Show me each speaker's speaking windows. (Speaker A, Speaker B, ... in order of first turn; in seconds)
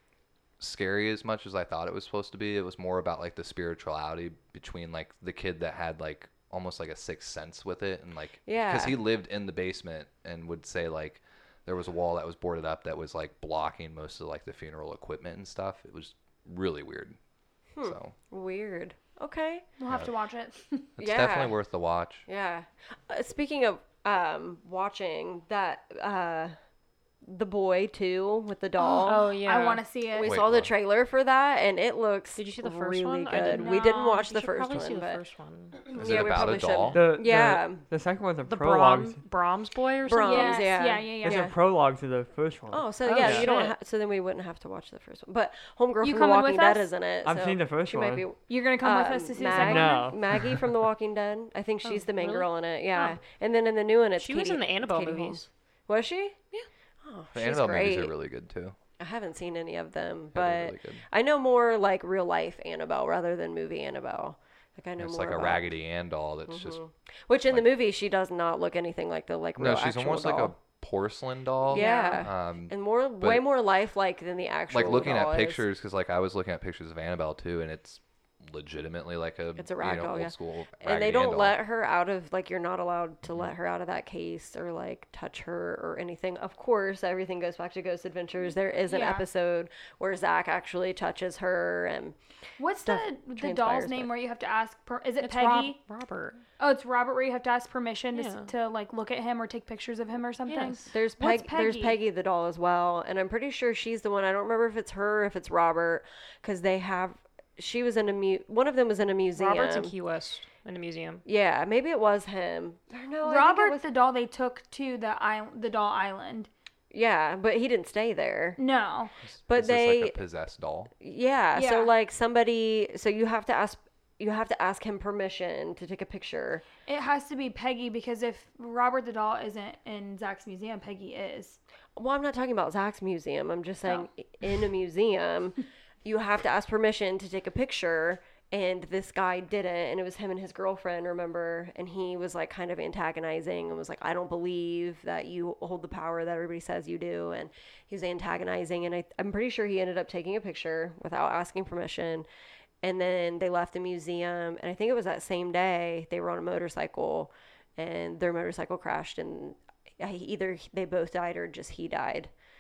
Speaker A: 0.6-17.2, 17.8-18.1, 21.0-22.3, 30.2-30.7, 35.9-37.0, 57.3-58.8, 60.3-61.0, 65.0-66.8, 69.6-73.4, 74.7-81.6, 119.2-120.9
Speaker B: 8.4-9.0, 17.8-19.6, 21.0-21.6, 22.2-26.5, 27.2-29.3, 30.1-35.2, 35.8-37.9, 40.1-41.6, 42.7-56.5, 57.0-58.1, 59.0-65.7, 66.5-70.6, 71.7-75.6, 79.6-92.2, 92.8-94.1, 100.9-109.9, 111.2-113.8, 116.9-118.6, 119.5-120.2, 121.0-126.7, 131.9-152.2, 152.8-162.3
Speaker C: 19.8-20.9, 28.8-30.4, 33.4-34.2, 40.2-41.5, 46.0-46.9, 48.5-50.1, 71.7-72.2, 88.9-89.2, 92.6-95.8, 96.6-102.0, 113.2-116.5, 118.6-119.1, 121.5-121.9, 126.9-131.6
Speaker D: 29.0-29.8, 32.4-36.2, 38.5-40.7, 43.0-43.7, 51.9-53.2, 54.2-55.5, 71.7-72.1, 95.2-96.4, 98.1-98.5, 100.5-100.9, 109.3-111.2
Speaker E: 36.9-39.2, 41.2-43.5, 47.2-48.2, 49.5-50.7